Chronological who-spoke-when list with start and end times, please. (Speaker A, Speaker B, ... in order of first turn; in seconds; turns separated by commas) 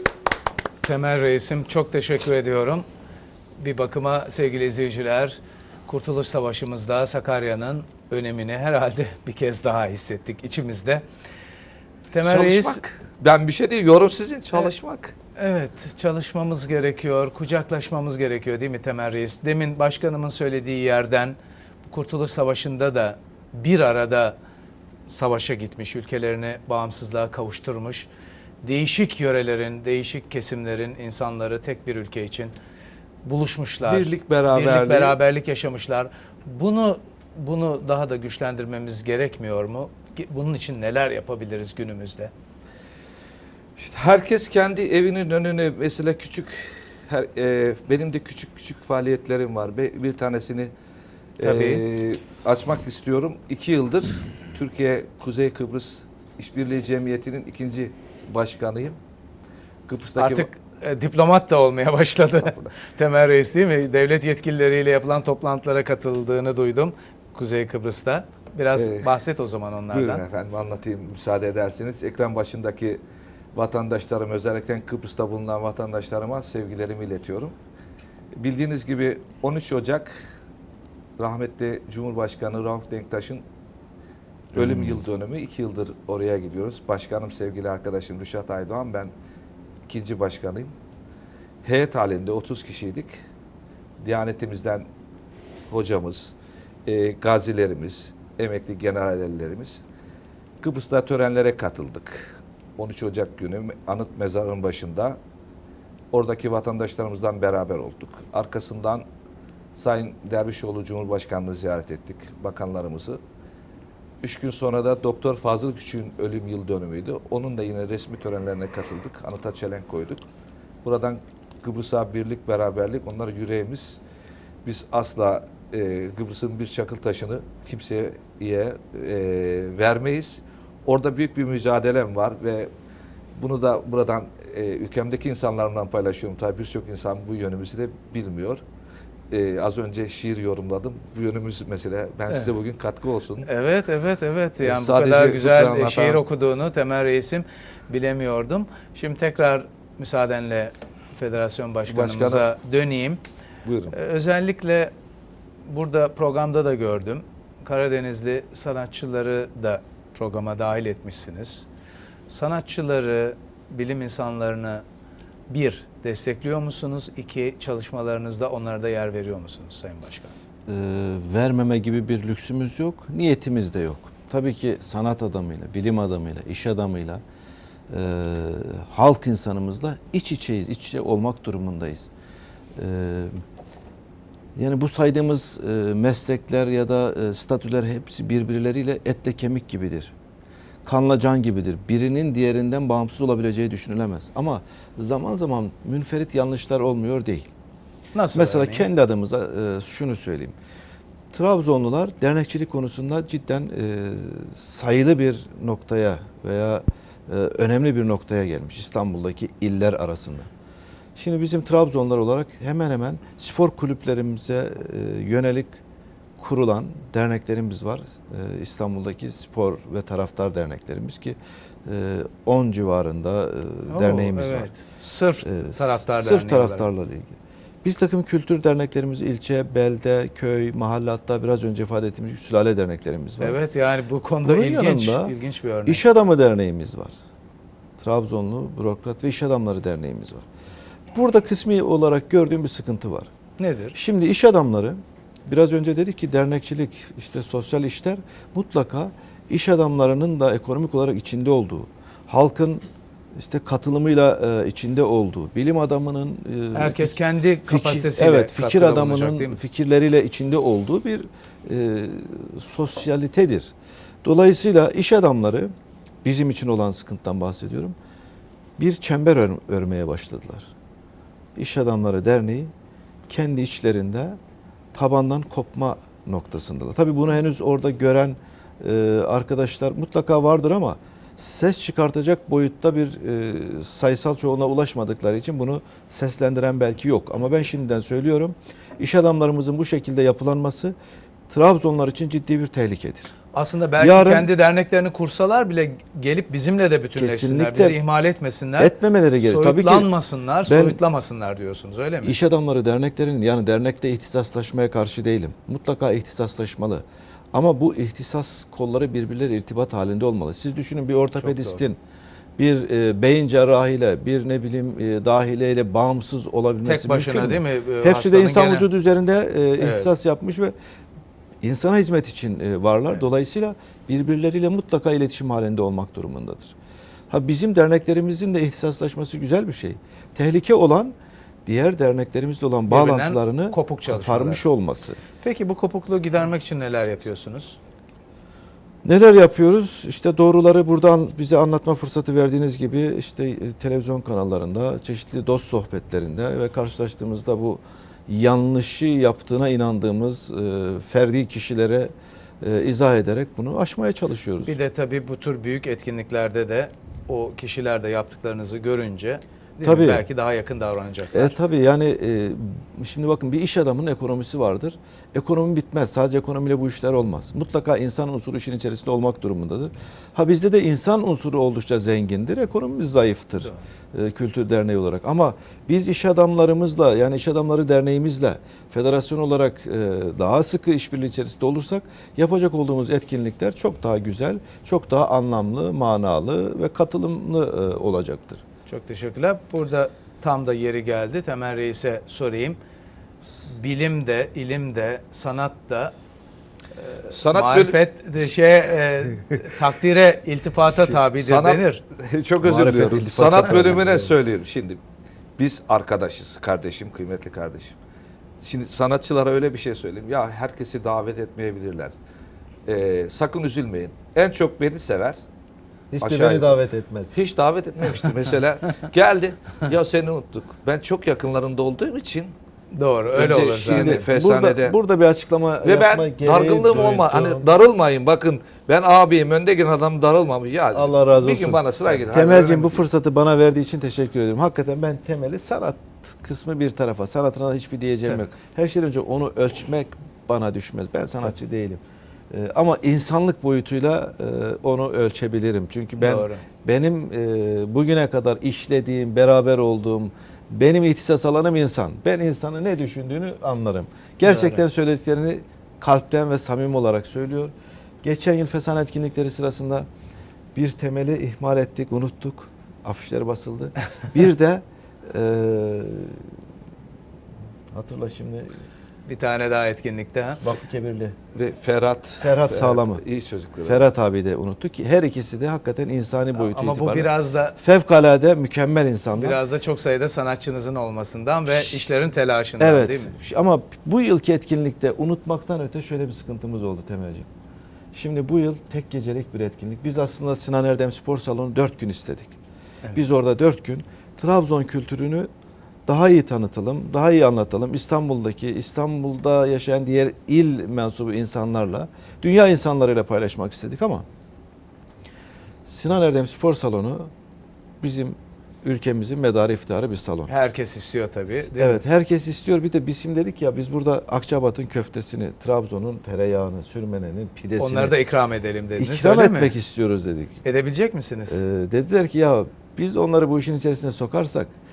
Speaker A: 0.8-2.9, Speaker A: 3.6-11.0, Speaker A: 12.1-12.8, Speaker B: 12.2-15.1, Speaker A: 15.3-24.4, Speaker A: 25.1-28.1, Speaker A: 28.6-32.5, Speaker A: 33.2-42.3, Speaker B: 33.9-35.2, Speaker B: 43.8-50.7, Speaker B: 51.4-59.0, Speaker A: 51.4-51.8, Speaker B: 59.9-60.5, Speaker A: 60.2-70.2, Speaker B: 62.4-62.7, Speaker B: 68.8-69.1, Speaker B: 69.9-73.0, Speaker B: 73.5-77.5, Speaker B: 78.3-80.2, Speaker B: 81.2-83.4, Speaker C: 84.5-85.0, Speaker B: 84.5-89.1, Speaker B: 89.9-90.7, Speaker B: 91.6-93.1, Speaker B: 94.0-94.8, Speaker B: 95.7-96.3, Speaker B: 96.8-99.8, Speaker B: 100.6-105.2, Speaker B: 106.1-109.0, Speaker B: 109.7-113.2, Speaker B: 114.2-120.3, Speaker B: 120.8-124.0, Speaker B: 124.6-132.7, Speaker B: 133.3-138.6, Speaker B: 139.3-143.5, Speaker A: 143.4-153.2, Speaker B: 144.6-146.2, Speaker B: 151.9-152.4, Speaker B: 153.6-153.9, Speaker A: 153.9-154.9, Speaker A: 155.7-161.7, Speaker A: 162.3-164.8, Speaker A: 165.5-170.3, Speaker C: 170.7-177.2, Speaker C: 177.9-182.1, Speaker C: 182.8-183.4, Speaker C: 184.6-190.1, Speaker C: 190.8-197.5, Speaker A: 198.1-198.9, Speaker C: 198.3-200.5, Speaker C: 201.3-210.5, Speaker C: 211.2-215.8, Speaker C: 216.4-224.7, Speaker A: 223.9-226.9, Speaker C: 225.4-233.6, Speaker A: 233.4-236.0, Speaker C: 234.4-235.3, Speaker C: 235.8-237.2, Speaker C: 238.0-240.4, Speaker C: 241.1-243.3, Speaker A: 243.6-244.0, Speaker C: 243.9-252.8, Speaker C: 253.3-263.7, Speaker A: 256.7-259.6, Speaker C: 264.2-267.9, Speaker C: 268.8-270.7, Speaker C: 271.6-272.7, Speaker C: 273.3-274.4, Speaker C: 274.9-290.9, Speaker C: 291.5-293.3, Speaker A: 293.5-302.4, Speaker C: 294.0-294.5, Speaker C: 297.1-298.0, Speaker C: 298.8-300.1, Speaker C: 300.6-301.0, Speaker C: 302.2-312.0, Speaker A: 311.4-311.8, Speaker C: 312.6-320.7, Speaker A: 316.8-318.9, Speaker A: 319.8-320.1, Speaker C: 321.6-326.7, Speaker C: 327.3-331.1, Speaker C: 331.6-335.2, Speaker A: 332.9-334.6, Speaker A: 335.4-337.8, Speaker C: 339.0-354.8, Speaker A: 354.6-361.6, Speaker C: 359.8-360.2, Speaker C: 361.3-388.6, Speaker A: 388.9-392.8, Speaker A: 393.4-396.1, Speaker A: 397.2-402.0, Speaker B: 397.3-398.4, Speaker B: 400.9-405.0, Speaker C: 402.6-404.3, Speaker B: 405.6-407.9, Speaker B: 408.6-412.1, Speaker B: 412.9-415.4, Speaker C: 416.1-417.4, Speaker B: 416.2-416.8, Speaker B: 417.3-422.5, Speaker A: 422.9-424.2, Speaker B: 423.3-424.9, Speaker C: 423.8-427.7, Speaker B: 425.8-433.0, Speaker C: 430.9-460.1, Speaker A: 446.2-446.6, Speaker A: 454.4-454.8, Speaker C: 460.7-466.5, Speaker C: 467.9-468.8, Speaker A: 469.2-470.6, Speaker C: 470.6-471.4, Speaker B: 471.5-474.1, Speaker C: 472.4-473.2, Speaker C: 473.9-479.6, Speaker A: 476.5-477.8, Speaker A: 479.3-483.3, Speaker C: 482.8-487.5, Speaker C: 488.1-492.6, Speaker C: 493.1-495.5, Speaker C: 496.1-504.2, Speaker C: 505.8-507.3, Speaker C: 508.0-510.5, Speaker A: 510.5-512.0, Speaker C: 511.7-518.1, Speaker A: 517.8-519.8, Speaker C: 519.0-520.6, Speaker A: 520.6-521.6, Speaker C: 521.5-524.7